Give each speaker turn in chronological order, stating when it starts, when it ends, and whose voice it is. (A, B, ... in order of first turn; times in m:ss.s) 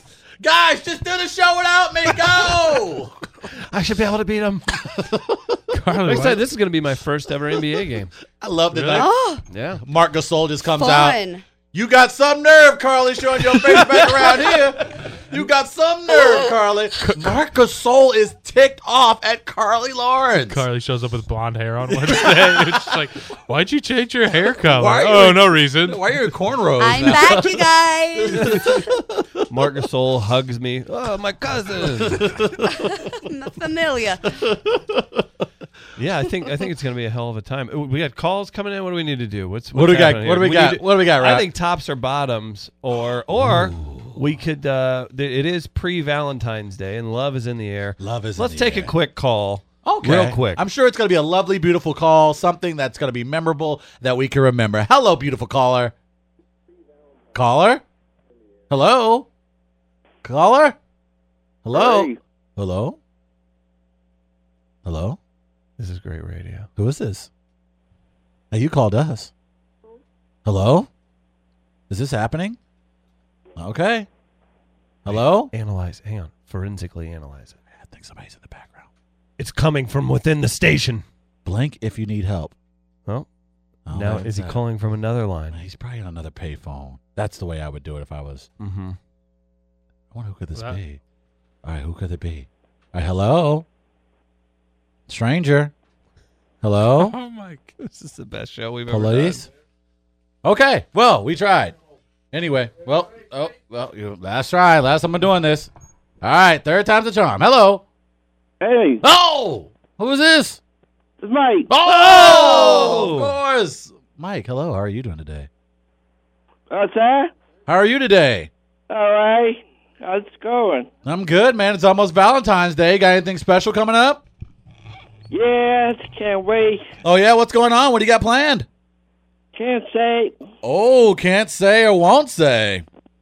0:00.4-0:03.2 A
0:03.5-0:04.9 B
0:04.8-0:05.6 A
0:05.7-0:06.4 C
0:06.0-0:08.1 B
0:08.4-0:09.1 A
0:08.7-0:09.0 C
0:08.9-0:09.4 D
0:09.5-0:09.8 B
0:09.8-0:11.2 A
0:10.8-0:11.4 D
0:11.7-0:20.6 A
0:20.5-0:26.1 C
0:22.0-0:22.9 A
0:24.7-0:27.6 A
0:26.8-0:28.6 D
0:28.2-0:29.0 A
0:28.3-0:32.4 B
0:32.0-0:32.9 A
0:32.7-0:34.3 D
0:34.4-0:35.2 A
0:36.0-0:50.6 B
0:39.7-0:41.5 A
0:43.4-0:44.2 A
0:48.0-0:48.9 A
0:49.8-0:55.9 A
0:57.3-0:57.8 A
0:58.7-0:59.3 A
1:00.2-1:00.8 A
1:01.6-1:03.0 A
1:01.7-1:02.2 E
1:04.8-1:05.2 A
1:05.8-1:06.7 B
1:06.8-1:07.3 A
1:08.5-1:09.3 A
1:10.4-1:10.9 A
1:11.9-1:12.6 A
1:13.6-1:14.1 A
1:15.0-1:15.5 A
1:15.1-1:17.6 B
1:17.7-1:18.9 A
1:19.4-1:21.0 B
1:21.4-1:22.5 A
1:23.8-1:24.6 A
1:23.9-1:25.6 B
1:25.5-1:28.5 A
1:28.6-1:29.0 B
1:30.1-1:31.0 A
1:31.6-1:33.6 A
1:35.1-1:35.7 A
1:36.6-1:37.1 A
1:37.0-1:37.7 C
1:37.8-1:39.4 B
1:38.9-1:39.5 A
1:40.4-1:41.7 A
1:42.3-1:45.7 A
1:46.2-1:47.8 A
1:48.6-1:49.0 E
1:49.0-1:50.6 A
1:51.2-1:51.7 E
1:51.7-1:55.5 A
1:51.8-1:53.3 B
1:56.7-1:57.3 E
1:57.7-1:58.5 A
1:58.9-2:00.9 E
2:01.0-2:04.2 A
2:05.3-2:06.9 E
2:07.0-2:08.6 A
2:09.5-2:10.4 E
2:10.6-2:12.8 A